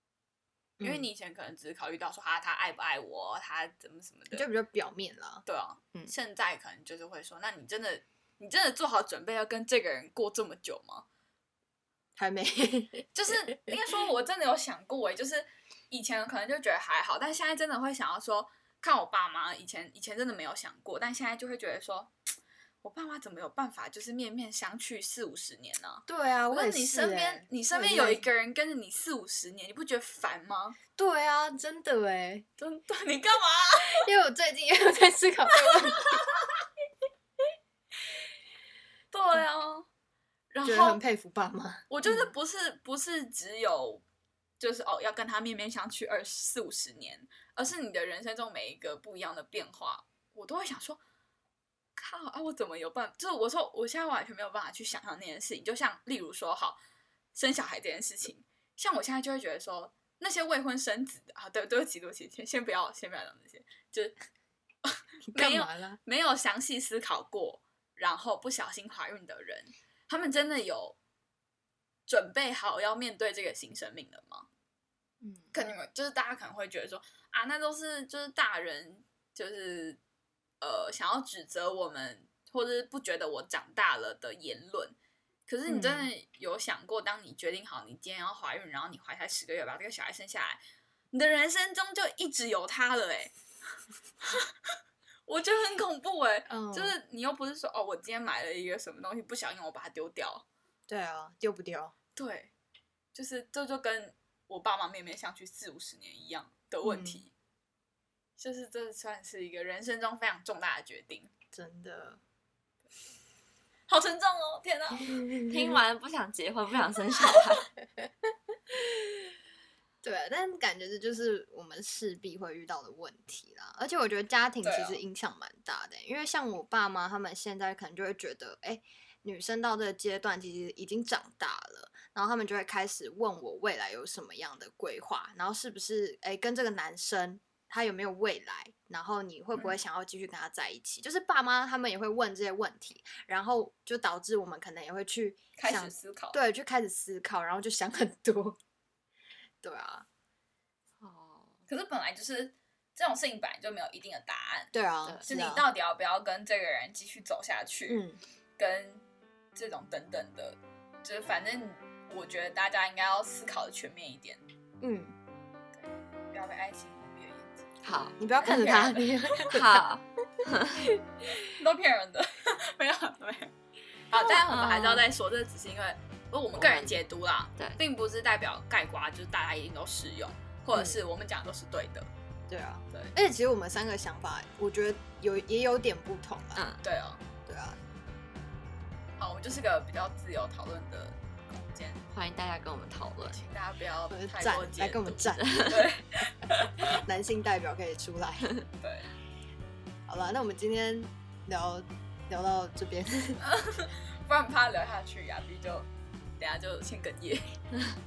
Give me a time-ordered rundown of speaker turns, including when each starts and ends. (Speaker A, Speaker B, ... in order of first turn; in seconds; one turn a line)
Speaker A: 0.8-1.1
Speaker B: 0.8-4.5
Speaker A: 4.3-5.4
Speaker B: 5.5-11.1
Speaker A: 12.2-13.9
Speaker B: 13.2-22.1
Speaker B: 22.8-30.8
Speaker A: 26.1-28.3
Speaker A: 31.0-32.5
Speaker B: 32.6-34.1
Speaker A: 33.9-36.2
Speaker B: 35.7-36.5
Speaker B: 39.1-39.9
Speaker B: 40.5-41.0
Speaker A: 40.6-42.3
Speaker B: 41.9-44.0
Speaker B: 44.6-51.0
Speaker B: 52.0-56.8
Speaker B: 57.4-64.2
Speaker B: 64.8-71.0
Speaker A: 65.3-66.0
Speaker B: 72.1-74.5
Speaker C: 75.2-75.5
Speaker B: 75.5-80.0
Speaker B: 80.6-85.0
Speaker B: 85.5-90.6
Speaker A: 85.7-86.1
Speaker B: 91.1-93.3
Speaker B: 94.2-94.5
Speaker B: 95.3-100.5
Speaker A: 96.5-97.0
Speaker A: 100.9-101.9
Speaker B: 102.2-102.5
Speaker B: 103.1-107.3
Speaker A: 106.8-107.2
Speaker B: 108.4-111.3
Speaker A: 111.5-112.2
Speaker B: 113.9-115.2
Speaker A: 115.0-115.8
Speaker C: 115.5-117.7
Speaker A: 118.7-119.3
Speaker A: 120.0-148.6
Speaker B: 124.6-125.0
Speaker B: 145.6-146.4
Speaker A: 149.6-150.1
Speaker C: 151.0-151.5
Speaker B: 151.7-154.7
Speaker A: 154.7-155.6
Speaker B: 155.3-158.0
Speaker A: 157.9-158.2
Speaker B: 158.6-159.0
Speaker B: 159.6-164.4
Speaker A: 164.8-165.2
Speaker B: 165.7-167.8
Speaker C: 167.8-168.2
Speaker A: 168.2-169.9
Speaker B: 168.4-169.5
Speaker C: 169.5-170.9
Speaker B: 171.5-173.5
Speaker B: 174.1-182.1
Speaker C: 174.4-175.1
Speaker C: 176.6-177.0
Speaker A: 180.7-181.0
Speaker A: 182.5-186.7
Speaker C: 186.6-186.8
Speaker B: 186.8-187.2
Speaker A: 187.5-187.8
Speaker B: 189.2-192.0
Speaker C: 192.1-193.4
Speaker B: 193.3-197.0
Speaker A: 194.1-195.8
Speaker C: 195.3-195.8
Speaker A: 196.8-198.5
Speaker B: 198.8-199.1
Speaker A: 200.1-203.4
Speaker B: 203.4-205.9
Speaker B: 206.4-207.6